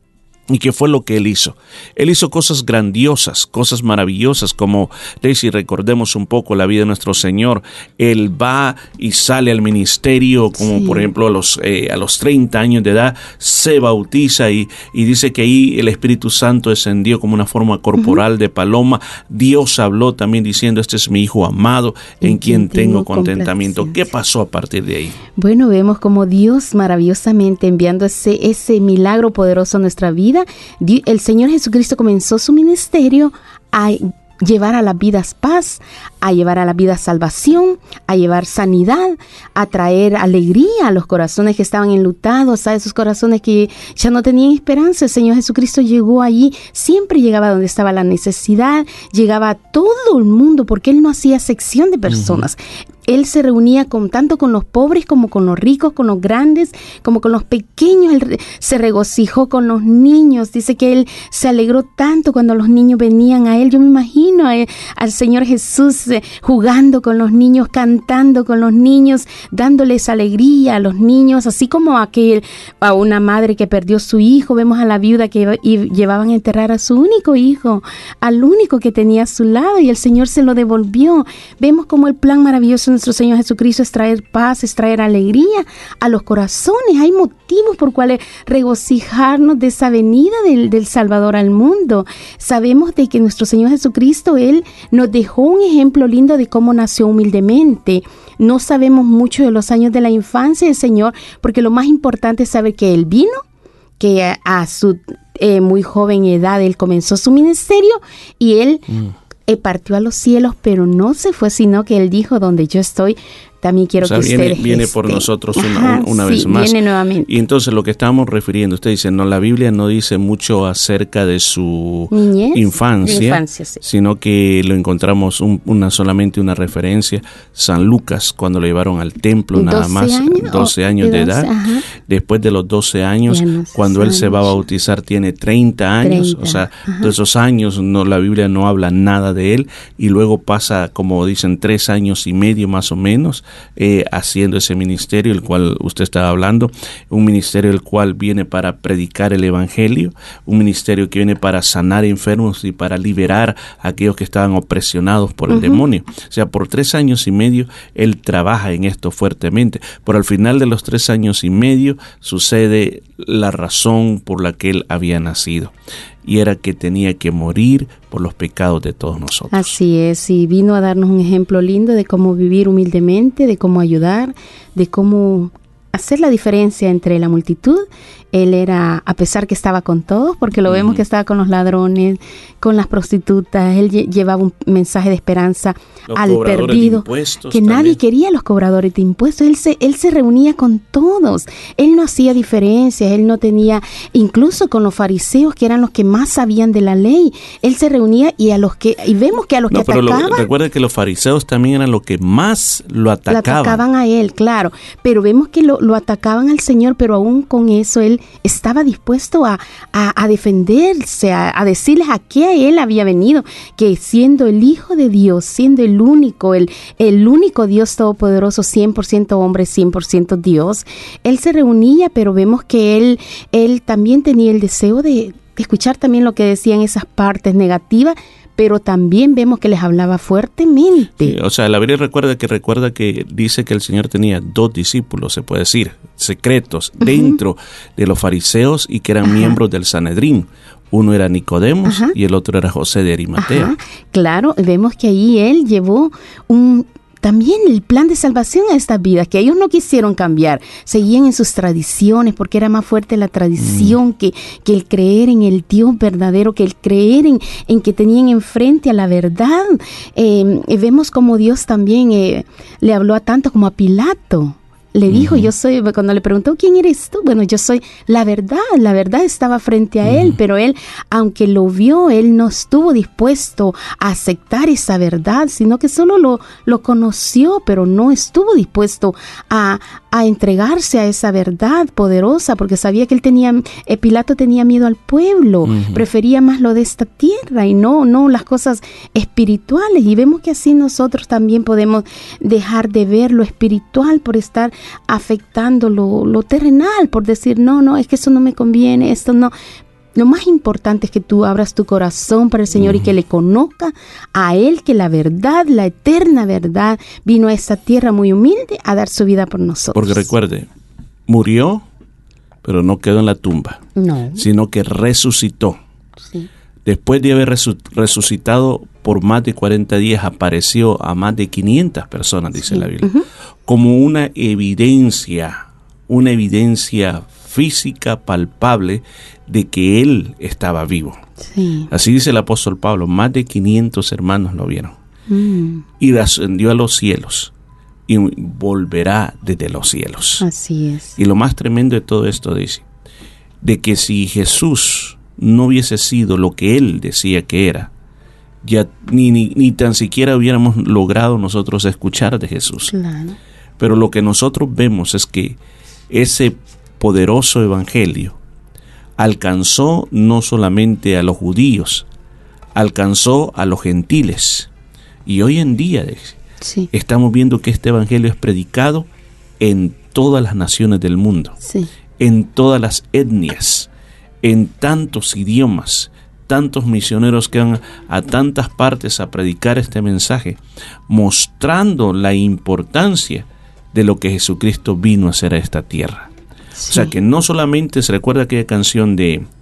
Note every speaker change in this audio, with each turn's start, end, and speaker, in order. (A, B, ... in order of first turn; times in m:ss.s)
0:00.5-0:25.2 A
0:10.6-0:11.1 B
0:22.2-0:24.0 B
0:25.4-1:43.4 B
0:52.1-0:52.5 A
1:44.0-1:48.8 B
1:48.9-1:49.1 A
1:49.5-1:57.3 B
1:54.0-1:56.8 A
1:57.3-2:45.7 A
2:02.1-2:03.8 B
2:09.5-2:11.8 B
2:13.3-2:14.6 B
2:16.0-2:17.1 B
2:35.5-2:35.8 B
2:46.2-2:49.8 A
2:49.5-3:20.4 B
3:00.7-3:01.0 A
3:06.1-3:08.0 A
3:19.7-3:23.8 A
3:23.3-3:51.3 B
3:51.2-4:03.7 A
3:57.0-3:57.4 B
3:59.2-3:59.6 B
4:01.8-4:02.1 B
4:03.4-4:59.5 B
4:13.6-4:14.0 A
4:25.1-4:25.5 A
4:30.0-4:30.4 A
4:45.6-4:46.0 A
5:00.2-5:10.3 B
5:02.7-5:03.1 A
5:09.9-5:10.7 A
5:11.3-5:11.8 A
5:12.6-5:13.8 A
5:14.0-5:14.4 B
5:14.4-5:15.8 A
5:16.2-5:16.5 B
5:16.8-5:23.1 A
5:22.6-5:23.2 B
5:23.7-5:31.2 A
5:31.4-5:31.9 B
5:31.9-5:35.0 A
5:35.3-5:35.8 B
5:36.0-5:37.5 A
5:38.1-5:40.4 A
5:40.4-5:41.2 B
5:41.2-5:42.8 A
5:43.6-5:47.9 A
5:48.6-5:52.9 A
5:52.9-5:53.4 B
5:53.8-5:55.6 A
5:56.1-5:58.4 A
5:59.2-6:02.0 A
6:02.8-6:04.7 A
6:05.2-6:06.4 A
6:06.6-6:06.9 B
6:06.9-6:09.0 A
6:09.6-6:11.6 A
6:11.6-6:11.9 B
6:12.2-6:13.9 A
6:14.4-6:26.3 A
6:26.8-6:27.1 B
6:26.9-6:29.4 A